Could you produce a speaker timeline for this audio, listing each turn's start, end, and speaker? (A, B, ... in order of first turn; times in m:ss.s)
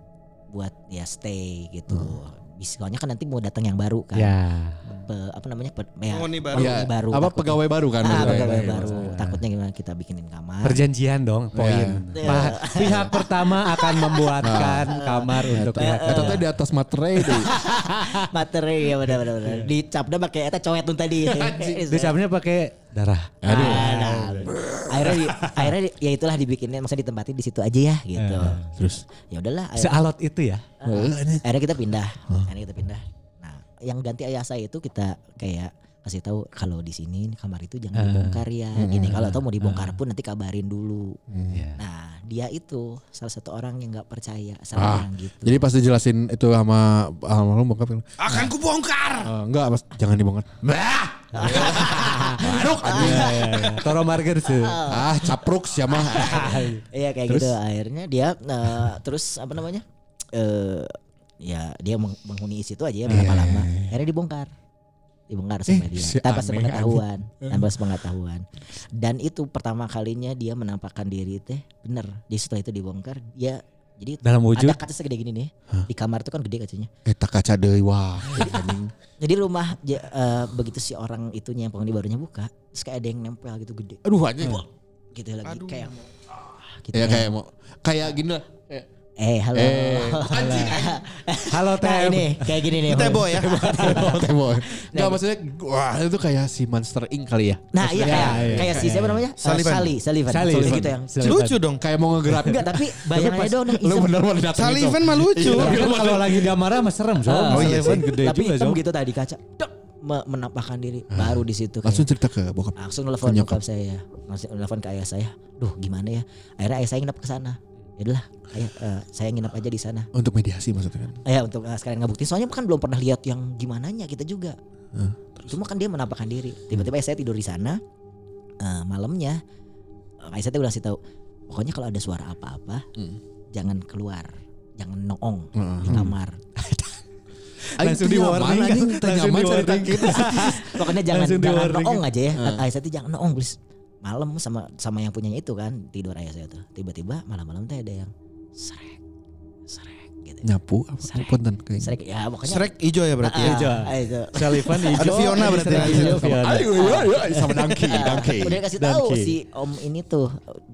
0:00.5-0:04.4 A
0:01.9-0:02.2 B
0:04.2-0:04.8 C
0:05.0-0:10.8 A
0:06.1-0:06.8 D
0:06.5-0:09.0 B
0:08.0-0:09.4 C
0:10.6-0:16.4 C
0:11.6-0:13.1 B
0:12.2-0:16.4 A
0:14.4-0:14.9 B
0:15.5-0:17.6 B
0:17.2-0:22.2 A
0:21.2-0:21.8 B
0:21.9-0:24.6 C
0:23.4-0:23.9 B
0:23.5-0:30.0 A
0:24.5-0:25.3 B
0:28.2-0:28.7 C
0:28.6-0:29.0 B
0:29.8-0:30.7 C
0:30.8-0:41.2 A
0:30.9-0:31.4 B
0:38.0-0:38.4 C
0:38.8-0:39.3 B
0:39.0-0:40.0 C
0:41.3-0:41.6 B
0:41.5-0:41.8 C
0:41.8-0:45.7 A
0:44.8-0:48.5 B
0:48.2-0:49.3 D
0:49.2-0:53.6 B
0:51.3-0:53.9 A
0:51.5-0:51.8 C
0:52.8-0:54.8 C
0:54.5-1:04.5 A
0:54.9-0:56.7 B
0:56.3-0:56.8 C
0:57.3-0:57.6 B
1:03.1-1:03.4 C
1:03.1-1:03.9 B
1:05.3-1:16.9 A
1:05.7-1:07.7 B
1:14.2-1:14.8 C
1:17.0-1:18.9 B
1:19.2-1:24.6 A
1:24.0-1:24.6 B
1:25.1-1:27.4 A
1:25.4-1:25.9 D
1:26.9-1:28.9 B
1:29.2-1:35.2 A
1:29.5-1:31.0 B
1:30.3-1:30.8 C
1:31.5-1:33.2 C
1:32.8-1:33.7 D
1:33.5-1:38.9 B
1:33.8-1:34.2 C
1:37.7-1:41.3 A
1:38.0-1:39.2 C
1:39.4-1:40.0 D
1:40.3-1:41.6 C
1:40.6-1:40.9 B
1:41.2-1:41.8 D
1:41.8-1:46.6 B
1:42.4-1:44.1 A
1:44.5-1:45.8 D
1:45.4-1:48.8 C
1:47.2-1:52.1 A
1:47.5-1:48.1 D
1:51.1-1:53.6 B
1:52.8-2:00.1 A
2:00.1-2:01.2 B
2:01.2-2:04.6 A
2:04.9-2:05.5 B
2:05.5-2:07.8 A
2:08.6-2:09.4 A
2:10.2-2:11.0 A
2:11.5-2:12.9 A
2:13.5-2:16.9 A
2:15.6-2:16.2 B
2:17.7-2:22.0 C
2:17.8-2:20.6 B
2:20.0-2:29.0 A
2:22.4-2:22.7 B
2:29.7-2:30.5 A
2:30.4-2:32.0 B
2:31.0-2:37.2 A
2:32.4-2:33.9 D
2:33.4-2:37.7 C
2:35.0-2:36.3 D
2:35.8-2:38.6 B
2:37.9-2:40.6 A
2:38.8-2:39.3 C